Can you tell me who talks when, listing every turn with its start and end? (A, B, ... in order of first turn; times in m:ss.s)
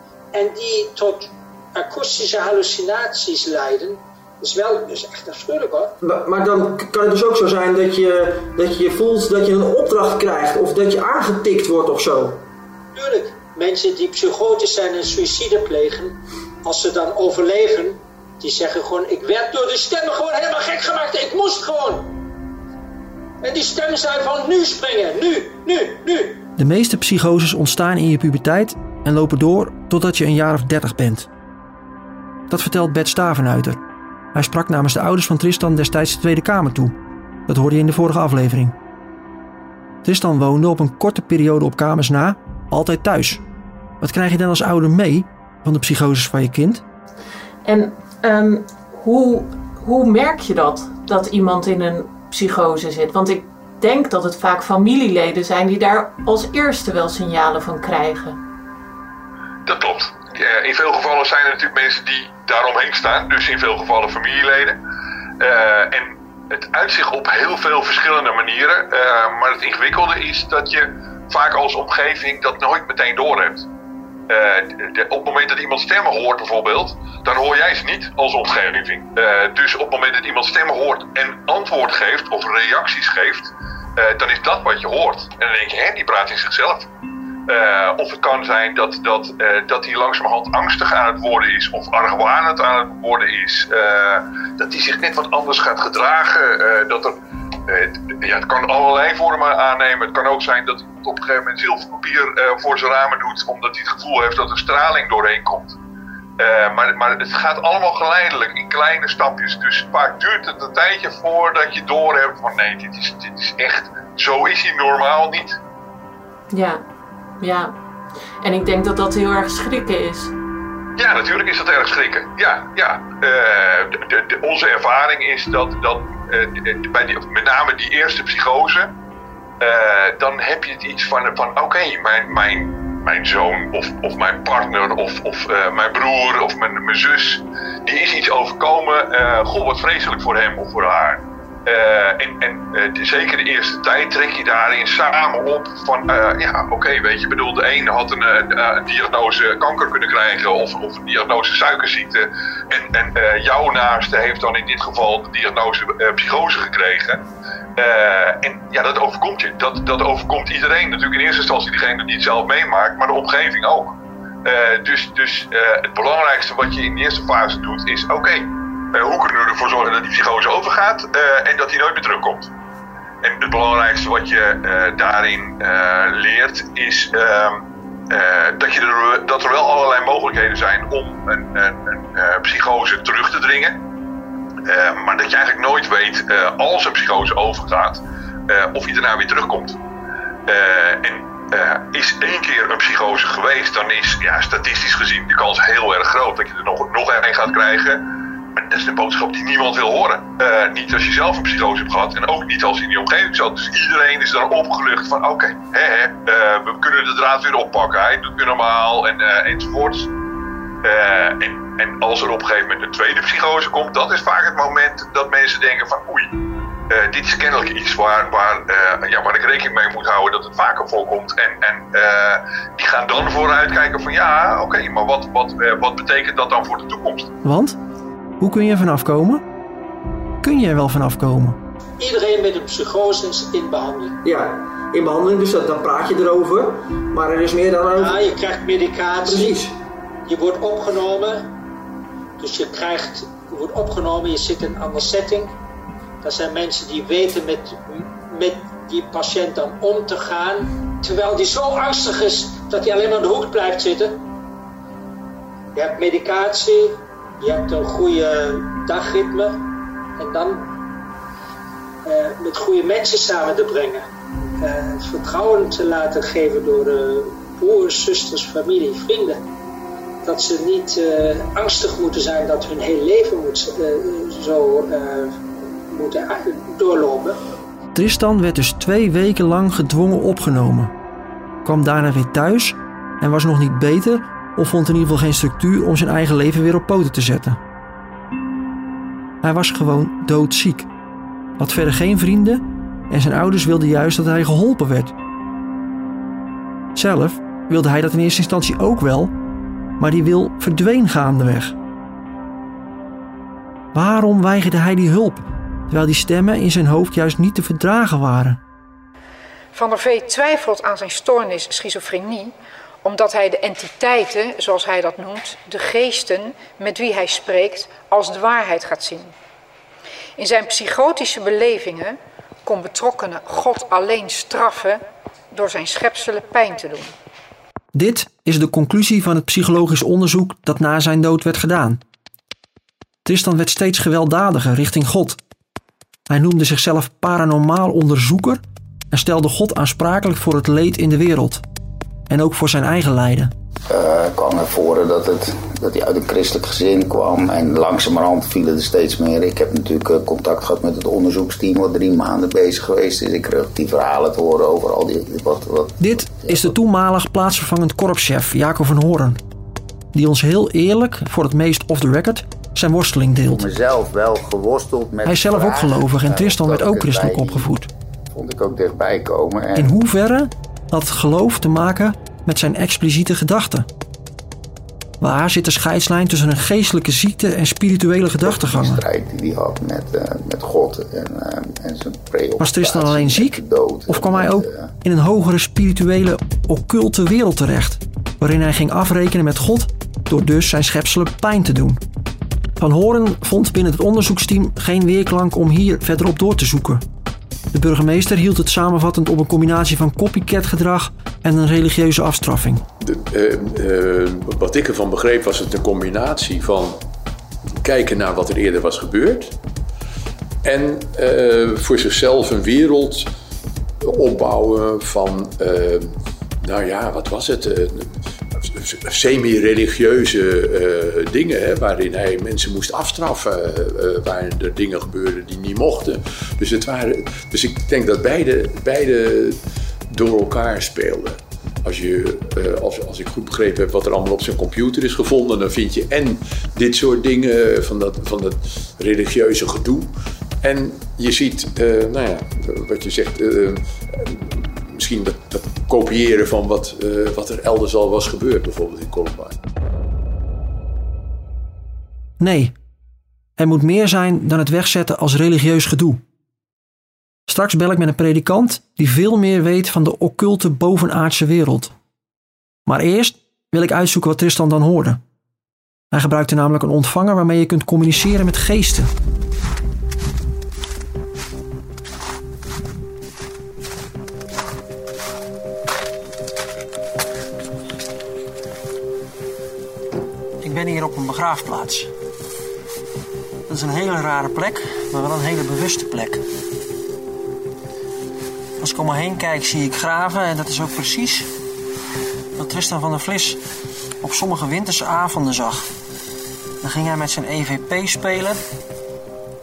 0:00.3-0:05.9 A
0:06.0-0:12.4 B
0:12.9-0:22.1 A
0:23.4-0:26.4 A
0:26.6-0:31.3 B
0:32.5-0:33.8 B
0:34.3-0:37.0 B
0:37.5-0:38.8 B
0:40.0-0:43.4 B
0:44.0-0:46.8 B
0:47.6-0:58.4 C
0:59.7-1:04.8 D
1:05.4-1:13.7 D
1:14.3-1:26.9 D
1:27.5-1:37.1 D
1:37.7-1:45.8 D
1:46.4-1:55.6 D
1:56.5-1:56.8 C
1:57.4-1:57.7 C
1:58.4-2:00.3 C
2:01.0-2:08.9 D
2:09.6-2:37.2 D
2:37.8-2:52.5 D
2:53.2-3:03.8 D
3:04.7-3:09.8 D
3:10.5-3:18.0 D
3:18.5-3:30.1 D
3:30.8-3:36.4 D
3:36.9-3:47.3 D
3:47.4-3:47.8 B
3:48.4-3:49.4 B
3:50.4-3:51.6 B
3:52.0-3:54.2 A
3:54.2-3:58.3 B
3:58.0-3:59.6 A
3:59.2-3:59.8 B
4:00.3-4:01.5 A
4:02.4-4:05.6 A
4:06.2-4:14.2 A
4:15.8-4:19.6 A
4:20.2-4:20.7 A
4:22.0-4:24.1 A
4:24.6-4:29.4 A
4:30.2-4:37.4 A
4:38.0-4:40.9 B
4:41.6-4:47.6 B
4:49.4-4:50.9 B
4:51.6-4:55.2 B
4:57.0-4:59.3 B
5:00.0-5:01.8 B
5:03.9-5:08.6 B
5:09.7-5:19.3 E
5:20.4-5:27.1 E
5:27.9-5:32.0 B
5:33.2-5:35.4 B
5:36.3-5:41.6 B
5:42.3-5:43.5 B
5:43.9-5:56.7 F
5:56.0-5:59.4 B
6:00.1-6:03.7 B
6:03.5-6:07.7 F
6:05.2-6:07.9 B
6:08.3-6:10.0 F
6:09.8-6:13.9 B
6:15.2-6:19.0 B
6:18.4-6:24.9 F
6:22.6-6:32.0 B
6:32.8-6:37.0 B
6:37.7-6:42.8 B
6:43.0-6:47.0 G
6:47.8-6:49.6 G
6:50.6-6:53.3 G
6:54.0-7:29.6 G
7:32.4-7:32.8 B
7:33.6-7:36.2 B
7:37.5-7:41.9 B
7:42.9-7:45.2 B
7:46.1-7:49.1 B
8:00.6-8:02.1 B
8:03.7-8:06.4 B
8:08.8-8:11.5 B
8:12.6-8:13.6 B
8:14.2-8:15.9 B
8:16.8-8:18.6 B